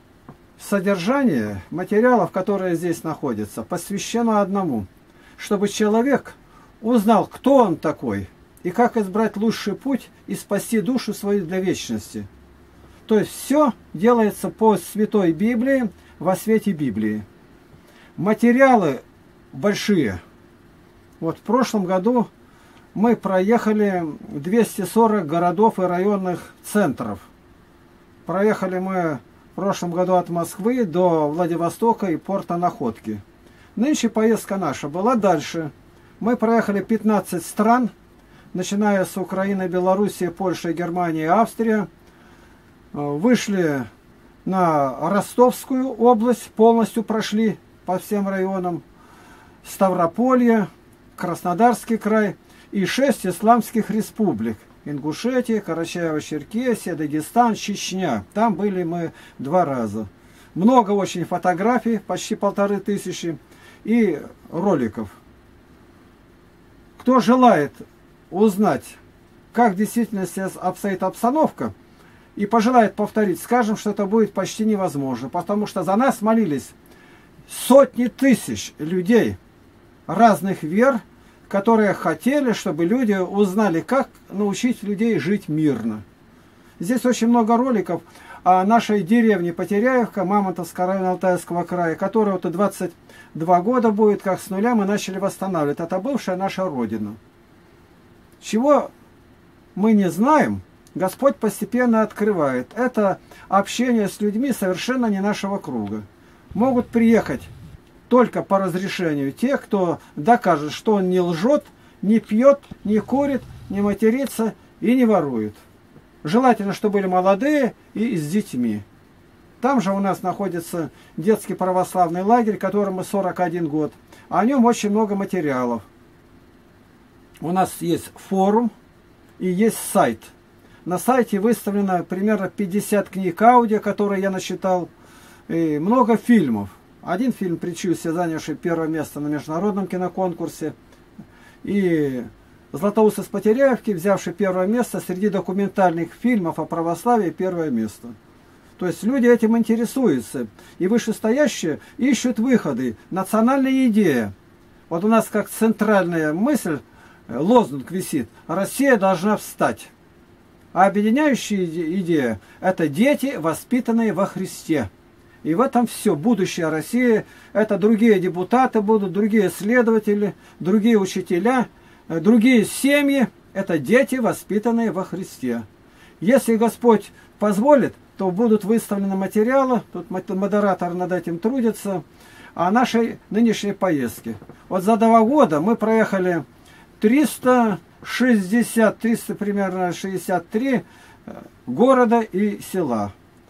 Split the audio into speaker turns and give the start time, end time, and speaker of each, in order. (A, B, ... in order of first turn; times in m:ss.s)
0:00.6-0:12.3 A
0:13.0-0:17.2 A
0:18.2-0:20.2 A
0:21.2-0:22.3 A
0:22.9-0:27.3 A
0:28.2-0:33.2 A
0:33.7-0:37.9 A
0:38.5-0:41.9 A
0:42.9-0:43.9 A
0:44.4-0:48.8 A
0:49.6-1:05.1 A
1:07.0-1:09.0 A
1:09.5-1:11.7 A
1:12.4-1:16.7 A
1:17.5-1:19.4 A
1:20.1-1:26.0 A
1:26.8-1:37.2 A
1:38.4-1:38.9 A
1:39.7-1:47.5 A
1:48.1-1:55.6 A
1:56.2-1:58.8 A
1:59.6-2:05.8 A
2:07.4-2:08.7 A
2:09.4-2:10.3 A
2:10.8-2:14.9 A
2:15.5-2:20.7 A
2:21.6-2:28.1 A
2:28.8-2:34.3 A
2:34.9-2:39.9 A
2:40.7-2:44.9 A
2:45.4-2:55.6 A
2:56.2-3:02.0 A
3:02.5-3:06.4 A
3:07.0-3:13.1 A